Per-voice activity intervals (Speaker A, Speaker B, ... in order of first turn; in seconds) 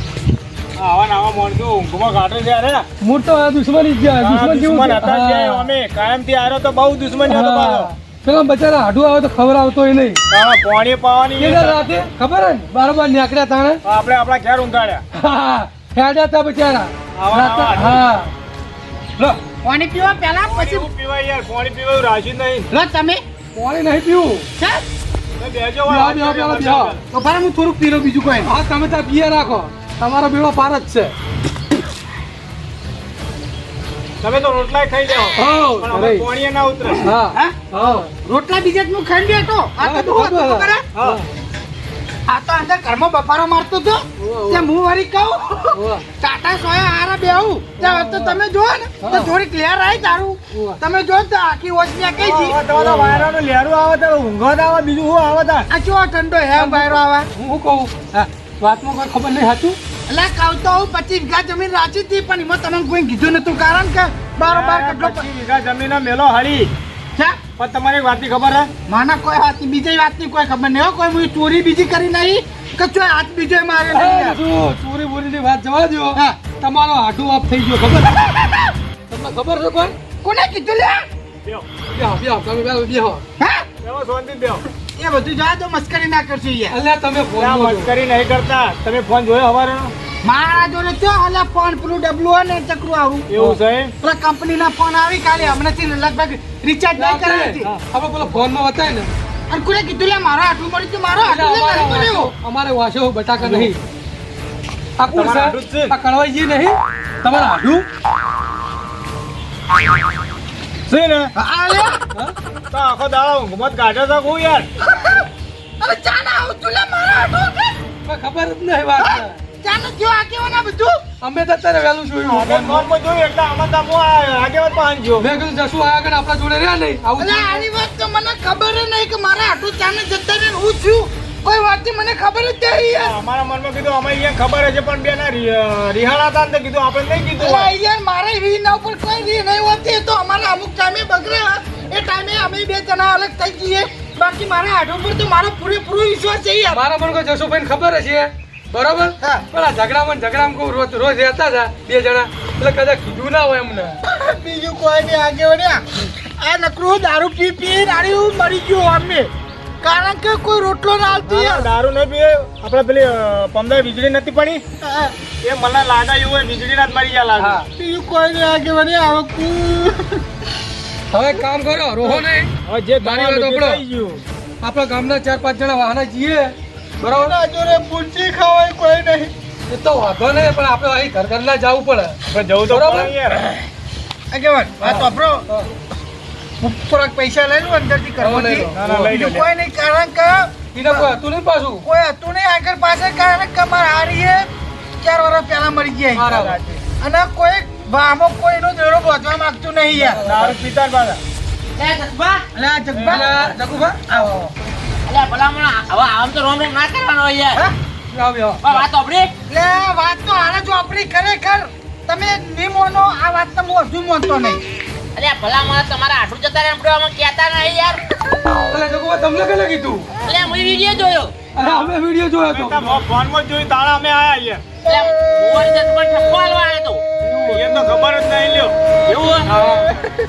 Speaker A: 0.8-2.9, 4.2-7.9, 10.3-11.8, 13.8-15.0, 17.1-18.0, 20.4-22.7, 25.4-27.0, 34.2-37.1, 40.9-41.2, 52.2-55.7, 64.5-66.7, 67.5-68.7, 83.8-84.7, 87.4-89.9, 93.3-93.9, 103.4-103.7, 105.1-106.0, 110.9-111.3, 112.7-114.7, 122.2-125.3, 132.9-137.7, 161.3-164.6, 165.4-167.6, 172.0-174.2, 182.2-183.4, 188.7-189.5, 196.2-196.8, 200.2-201.2, 202.9-203.5, 221.6-221.9, 222.5-224.6, 227.4-228.7
Speaker B: 3.0-5.7, 7.2-10.2, 11.4-13.8, 15.1-18.3, 23.5-24.5, 25.9-27.0, 28.4-31.1, 35.3-36.3, 37.0-38.1, 39.8-41.2, 44.2-44.6, 45.7-46.0, 47.8-48.4, 49.0-49.3, 50.5-50.8, 52.7-53.3, 56.5-59.8, 73.9-79.9, 81.9-83.2, 86.7-87.9, 97.0-99.1, 101.2-103.8, 105.0-107.9, 118.0-119.4, 121.2-122.9, 125.2-127.7, 146.7-154.0, 167.4-167.7, 171.1-173.8, 174.6-177.3, 179.7-183.4, 184.8-185.7, 188.2-189.2, 190.7-191.8, 196.2-196.6, 200.0-200.6, 203.1-204.5, 208.1-208.8, 218.5-220.1, 221.5-223.0, 227.2-227.8, 229.5-230.0
Speaker C: 19.5-20.9, 22.7-23.2, 24.6-24.8, 27.1-28.5, 37.3-40.8, 42.3-52.6, 55.7-57.3, 60.1-65.2, 67.2-67.4, 68.9-74.4, 76.1-76.4, 80.2-81.0, 83.4-83.7, 84.9-86.7, 90.2-93.3, 94.0-97.7, 99.5-102.3, 111.3-112.0, 114.8-115.3, 115.8-117.7, 119.0-121.0, 127.2-133.2, 137.4-146.8, 149.2-149.4, 154.1-155.8, 156.4-159.3, 159.8-161.7, 164.8-165.1, 167.7-170.2, 177.0-179.3, 184.3-185.4, 186.6-191.1, 191.8-194.5, 195.0-196.4, 197.0-200.3, 202.5-203.5, 204.1-204.3, 209.5-214.6, 225.3-225.5, 228.1-230.0
Speaker D: 201.8-202.4, 205.1-207.6, 208.6-209.3, 215.1-218.0, 220.2-221.3, 224.8-227.0, 229.1-229.5